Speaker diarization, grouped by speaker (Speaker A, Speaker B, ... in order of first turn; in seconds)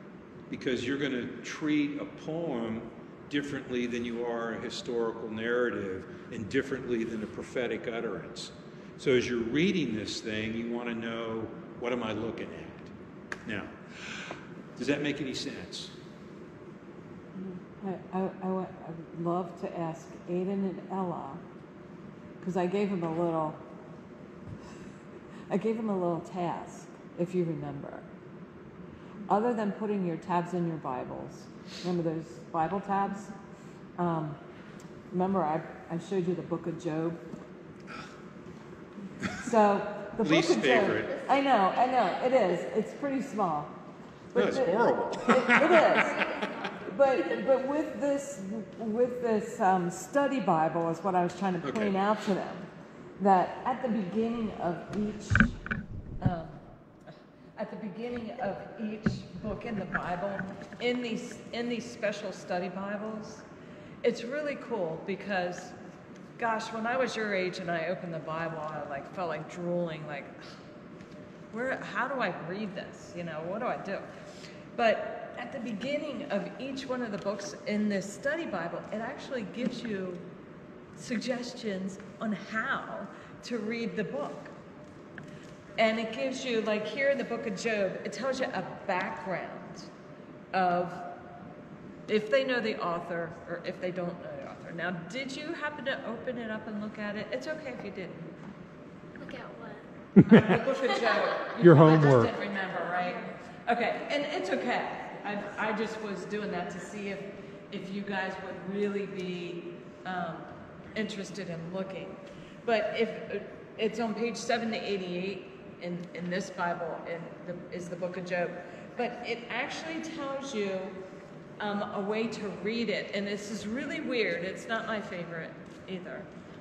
Speaker A: 0.5-12.9, 13.5-15.9, 40.2-41.1, 44.3-46.1, 51.6-52.0, 100.2-100.6, 101.6-102.3
Speaker B: 17.4-21.4, 22.4-23.6, 25.5-28.1, 29.3-33.3, 34.0-34.4, 35.1-37.2, 39.4-43.8, 44.3-52.7, 53.2-55.5, 56.2-56.6, 57.6-63.4, 64.0-65.7, 66.4-70.4, 71.5-74.1, 74.8-80.2, 81.0-84.5, 85.8-89.9, 90.5-91.1, 92.1-98.3, 100.3-121.0, 121.6-126.3
Speaker C: 45.8-46.8, 99.2-101.5